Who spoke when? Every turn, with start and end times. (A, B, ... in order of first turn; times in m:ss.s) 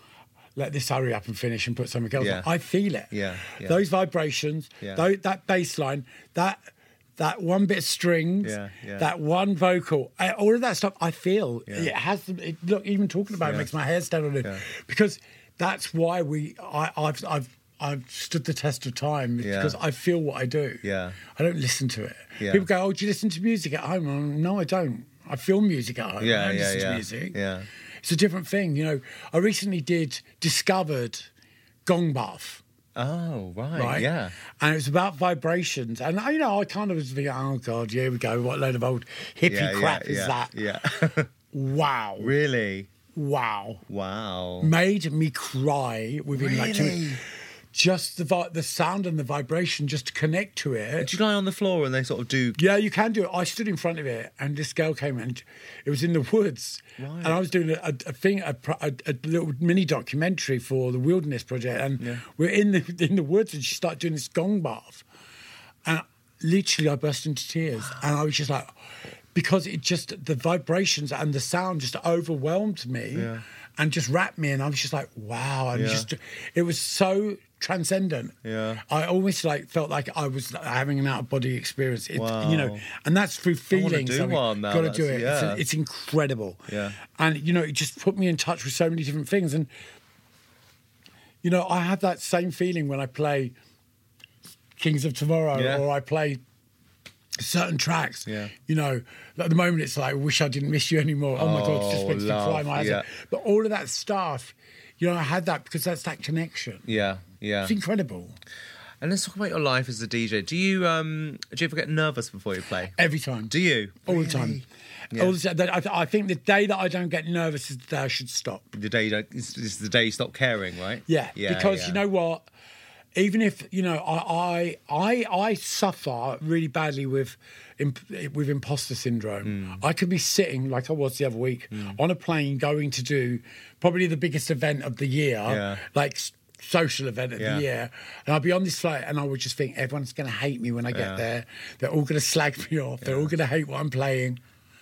0:00.6-0:06.6 A
0:02.2-0:02.5 B
0:03.1-0:03.8 B
0:07.2-0:27.4 A
0:08.4-0:09.1 B
0:19.4-0:19.8 B
0:20.8-0:21.2 B
0:22.4-0:22.7 B
0:26.2-0:27.7 B
0:28.0-0:31.3 A
0:31.9-0:32.6 A
0:33.0-0:34.4 B
0:33.8-0:40.5 A
0:39.5-0:41.3 B
0:41.5-0:42.3 A
0:42.2-0:42.9 B
0:43.1-0:43.8 A
0:43.9-0:44.7 B
0:44.6-0:51.1 A
0:46.3-0:47.2 B
0:51.0-0:52.6 B
0:52.6-1:05.0 A
0:57.0-0:57.4 B
1:05.8-1:08.7 A
1:09.4-1:18.4 A
1:13.2-1:13.4 B
1:15.7-1:16.1 B
1:18.4-1:18.8 B
1:18.9-1:29.7 A
1:22.2-1:22.8 B
1:23.7-1:25.6 B
1:26.7-1:27.0 B
1:31.4-1:33.5 A
1:34.8-1:36.4 A
1:35.5-1:35.9 B
1:37.4-1:46.9 A
1:38.3-1:38.5 B
1:41.4-1:43.1 B
1:46.9-1:47.8 B
1:47.6-1:48.4 A
1:49.0-1:53.0 B
1:53.0-1:53.5 A
1:53.5-1:55.4 B
1:54.0-1:58.6 A
1:58.7-2:02.0 B
2:01.1-2:02.4 A
2:03.2-2:24.4 A
2:09.4-2:09.8 B
2:15.5-2:15.8 B
2:17.4-2:17.6 B
2:20.9-2:21.2 B
2:23.0-2:23.3 B